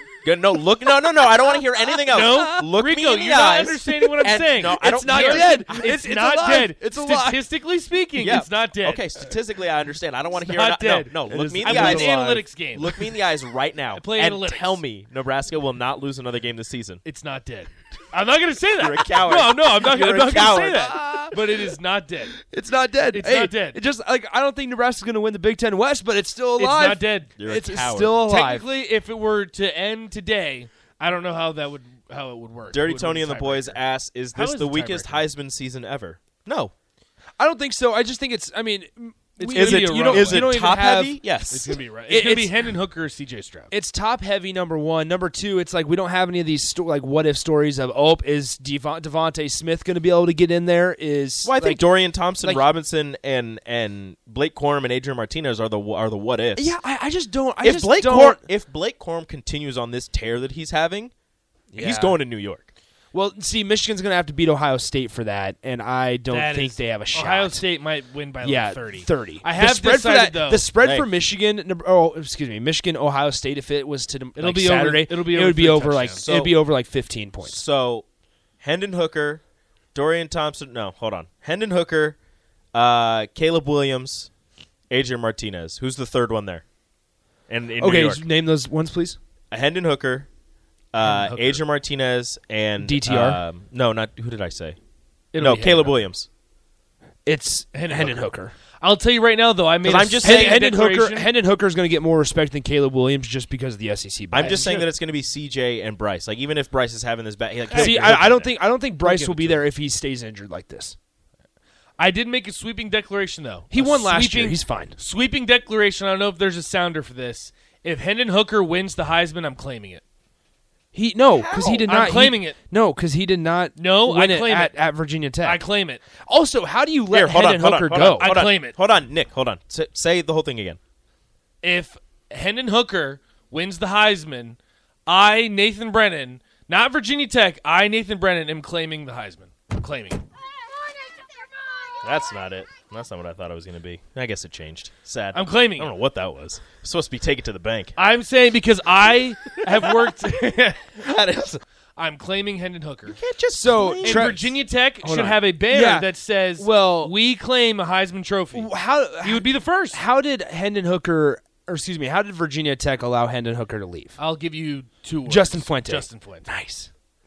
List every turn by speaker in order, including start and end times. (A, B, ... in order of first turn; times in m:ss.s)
0:00.2-0:05.9 A
0:02.1-0:09.3 B
0:02.2-0:02.6 C
0:03.9-0:07.4 C
0:08.2-0:17.0 A
0:10.4-0:13.0 B
0:11.3-0:12.5 C
0:13.9-0:14.8 B
0:17.0-0:22.4 B
0:18.8-0:21.2 A
0:19.8-0:21.7 C
0:22.3-0:28.6 C
0:23.1-0:23.8 B
0:26.6-0:27.3 B
0:27.4-0:28.2 A
0:28.2-0:33.8 B
0:32.7-0:36.7 A
0:34.3-0:35.2 B
0:37.4-0:42.6 C
0:39.4-0:40.6 B
0:39.5-0:41.8 A
0:41.5-0:43.7 B
0:43.7-0:51.8 C
0:51.4-0:56.7 A
0:56.6-0:58.4 C
0:57.6-1:01.1 A
1:01.7-1:02.2 C
1:01.7-1:02.7 A
1:03.1-1:07.6 C
1:06.3-1:10.7 B
1:08.4-1:17.6 C
1:10.8-1:11.1 A
1:14.3-1:16.3 B
1:16.2-1:16.6 A
1:17.4-1:18.0 A
1:18.6-1:19.4 A
1:19.9-1:22.2 A
1:22.7-1:24.3 A
1:24.9-1:26.6 A
1:27.5-1:28.2 A
1:27.8-1:29.2 C
1:29.5-1:30.3 A
1:30.9-1:34.8 A
1:31.0-1:31.5 B
1:32.8-1:33.4 C
1:35.3-1:36.0 B
1:35.4-1:36.3 A
1:37.2-1:38.5 C
1:37.7-1:38.3 B
1:38.8-1:41.3 B
1:39.8-1:40.6 A
1:40.2-1:44.6 C
1:44.3-1:48.5 A
1:44.4-1:44.9 B
1:47.7-1:48.3 B
1:47.7-1:51.0 C
1:49.0-1:49.7 B
1:52.0-2:00.0 B
1:53.7-1:55.0 C
2:00.9-2:05.6 C
2:01.3-2:01.8 A
2:01.8-2:02.6 B
2:03.8-2:04.8 B
2:05.4-2:06.0 B
2:06.2-2:08.3 C
2:07.1-2:10.8 A
2:08.2-2:08.8 B
2:11.6-2:20.2 B
2:22.0-2:27.9 A
2:25.3-2:25.9 B
2:28.0-2:31.0 B
2:29.6-2:30.2 A
2:31.0-2:31.6 A
2:32.0-2:33.2 B
2:33.1-2:34.6 A
2:33.5-2:34.4 C
2:34.0-2:40.0 B
2:35.0-2:37.1 C
2:38.5-2:44.2 C
2:44.2-2:46.5 B
2:45.2-2:46.9 C